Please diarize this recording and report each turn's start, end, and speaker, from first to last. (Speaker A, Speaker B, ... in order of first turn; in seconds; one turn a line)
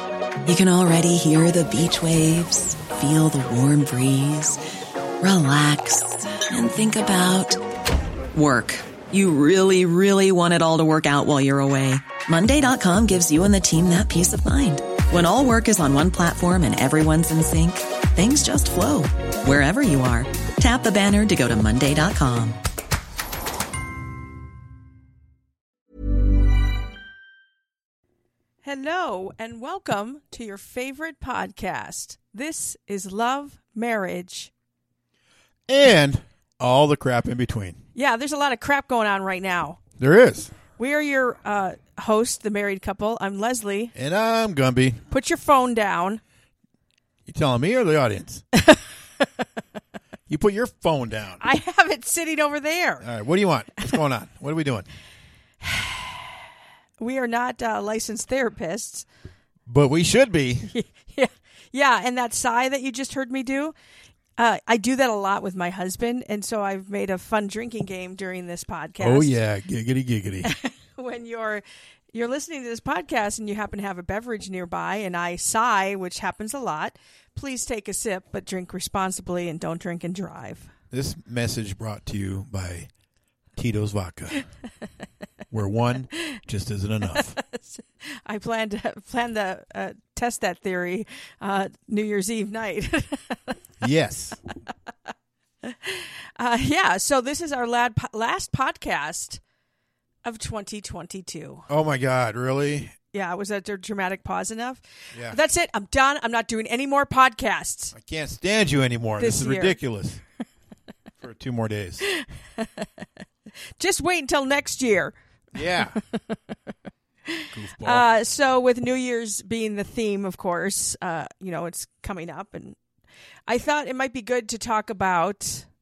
Speaker A: 0.4-4.6
Speaker A: 5.2-7.6
Speaker A: 8.3-22.6
Speaker B: 28.6-34.5
Speaker C: 35.7-37.8
Speaker B: 37.9-39.8
Speaker C: 40.0-40.5
Speaker B: 40.8-43.9
Speaker C: 43.9-45.0
Speaker B: 45.1-46.2
Speaker C: 47.2-48.4
Speaker C: 50.3-51.4
Speaker B: 51.4-53.0
Speaker C: 53.0-54.9
Speaker B: 55.6-56.3
Speaker B: 57.0-59.0
Speaker C: 59.7-60.7
Speaker B: 60.7-63.7
Speaker B: 64.4-69.3
Speaker C: 69.0-70.5
Speaker B: 70.4-80.7
Speaker C: 80.9-82.9
Speaker C: 83.5-84.5
Speaker C: 85.5-87.4
Speaker B: 87.4-93.6
Speaker C: 93.8-94.4
Speaker B: 95.6-99.4
Speaker B: 100.2-101.7
Speaker C: 101.7-103.0
Speaker B: 103.1-107.9
Speaker C: 105.1-105.4
Speaker C: 107.9-110.2
Speaker B: 109.2-109.8
Speaker C: 111.2-112.0
Speaker B: 112.0-112.9
Speaker B: 113.8-115.1
Speaker C: 115.5-116.0
Speaker B: 115.7-116.3
Speaker B: 117.3-122.8
Speaker C: 117.5-118.0
Speaker B: 123.5-125.7